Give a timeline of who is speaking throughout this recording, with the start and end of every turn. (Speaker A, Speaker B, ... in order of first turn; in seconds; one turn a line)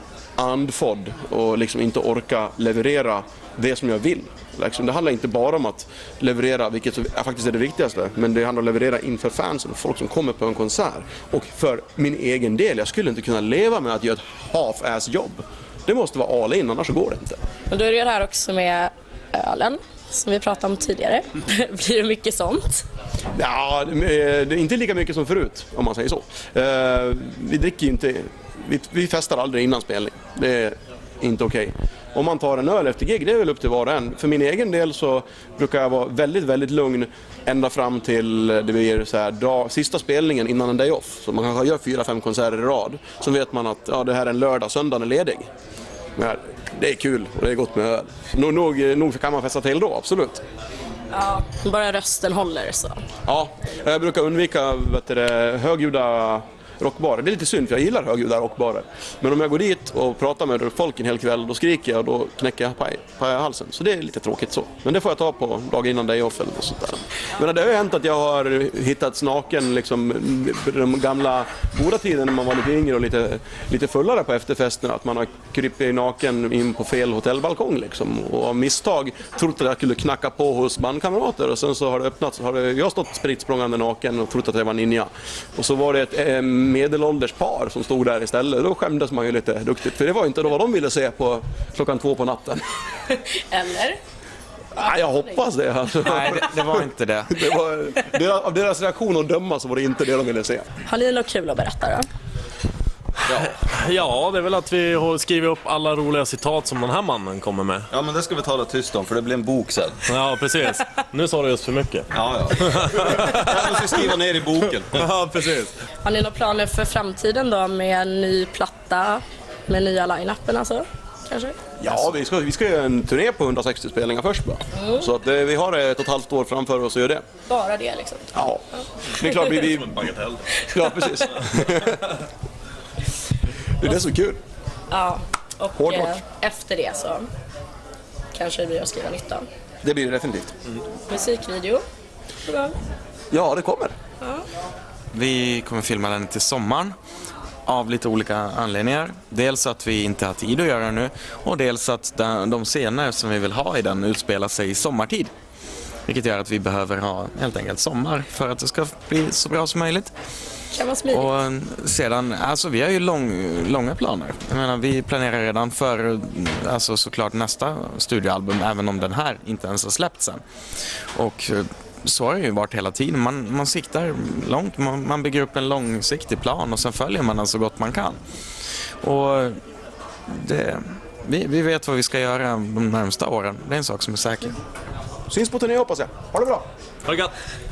Speaker A: 0.4-17.4
Speaker B: 17.7-22.8
Speaker A: 23.3-45.5
Speaker A: 46.2-50.4
Speaker B: 51.1-53.0
Speaker A: 53.2-92.6
Speaker B: 93.1-94.0
Speaker A: 94.7-100.7
Speaker C: 96.0-97.4
Speaker B: 100.8-102.1
Speaker D: 103.3-107.9
Speaker E: 107.9-110.0
Speaker D: 110.1-114.1
Speaker E: 112.1-115.0
Speaker D: 114.9-115.7
Speaker B: 116.0-121.6
Speaker A: 121.8-127.2
Speaker B: 124.7-125.1
Speaker B: 127.5-128.3
Speaker A: 128.3-132.2
Speaker B: 130.8-131.4
Speaker A: 133.8-134.4
Speaker B: 134.9-137.3
Speaker A: 135.8-136.2
Speaker B: 138.3-139.4
Speaker A: 139.8-140.5
Speaker B: 141.1-141.8
Speaker B: 142.5-142.7
Speaker A: 143.3-143.9
Speaker C: 145.1-146.9
Speaker C: 147.7-155.3
Speaker C: 156.1-160.1
Speaker B: 160.7-161.3
Speaker C: 161.1-170.4
Speaker C: 171.1-178.2
Speaker C: 179.0-179.6
Speaker C: 180.3-184.6
Speaker A: 185.3-186.7
Speaker D: 187.1-187.3